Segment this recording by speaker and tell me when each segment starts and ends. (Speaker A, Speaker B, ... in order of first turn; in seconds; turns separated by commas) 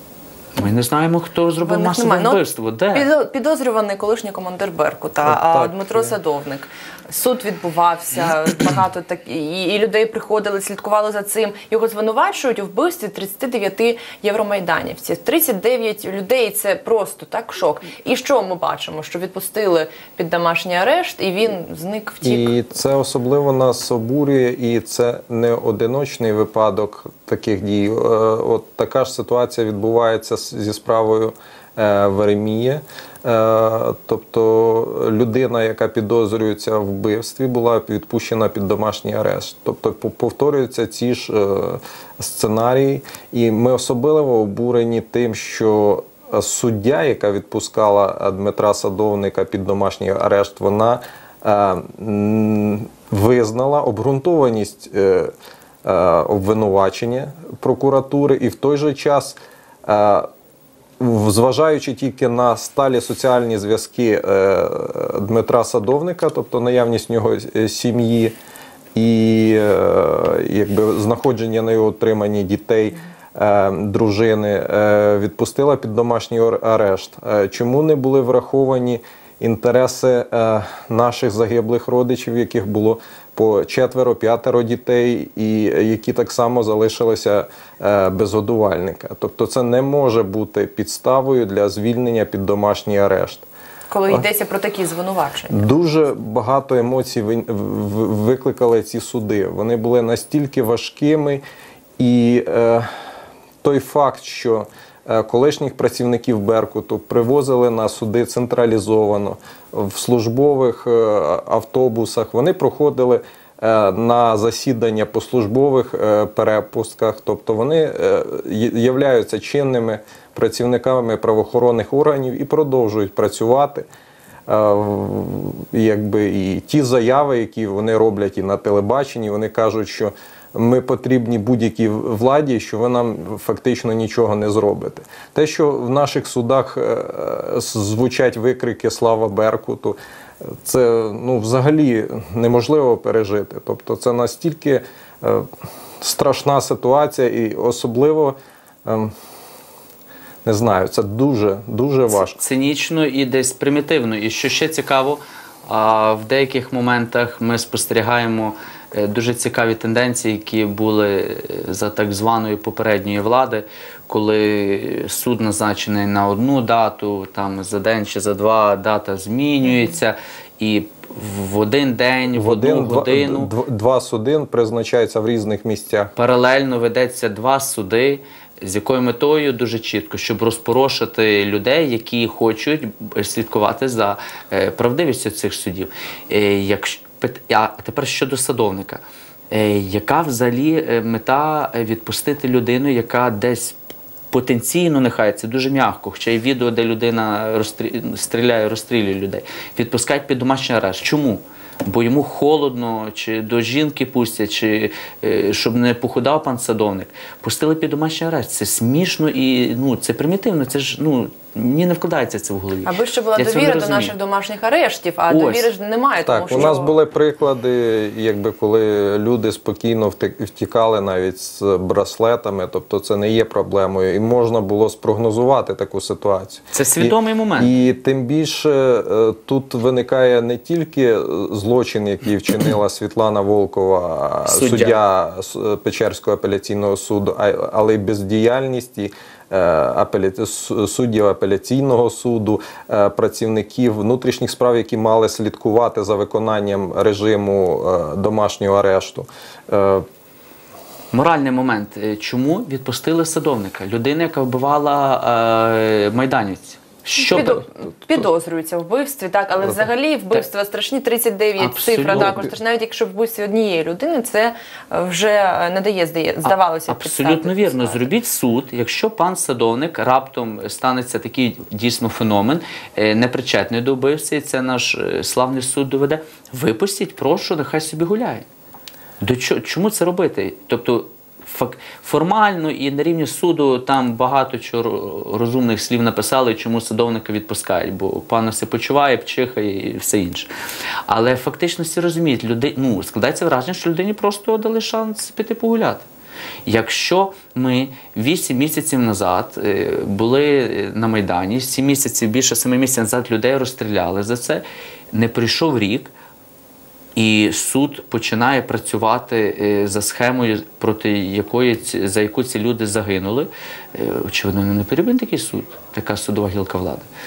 Speaker A: 0.6-3.1, Speaker B: 1.6-2.4, Speaker B: 2.9-22.6, Speaker C: 5.2-6.1, Speaker C: 22.2-55.3, Speaker C: 55.8-60.3, Speaker C: 61.0-68.3, Speaker C: 68.9-93.5, Speaker B: 93.9-95.7, Speaker C: 95.5-101.4, Speaker C: 102.0-102.9, Speaker C: 103.6-123.8, Speaker C: 124.5-140.0, Speaker C: 140.6-145.5, Speaker C: 146.0-149.1, Speaker C: 150.4-152.4, Speaker A: 152.1-173.5, Speaker C: 172.3-176.1, Speaker A: 176.2-193.8, Speaker A: 194.3-214.1, Speaker B: 212.8-217.0, Speaker A: 215.3-215.7, Speaker C: 216.2-250.1, Speaker A: 226.7-227.7, Speaker A: 234.5-235.0, Speaker A: 251.1-257.6, Speaker B: 257.2-268.1, Speaker A: 261.6-262.5, Speaker A: 266.4-278.4, Speaker A: 279.2-290.5, Speaker A: 291.1-296.1, Speaker A: 296.6-306.1, Speaker A: 307.1-317.1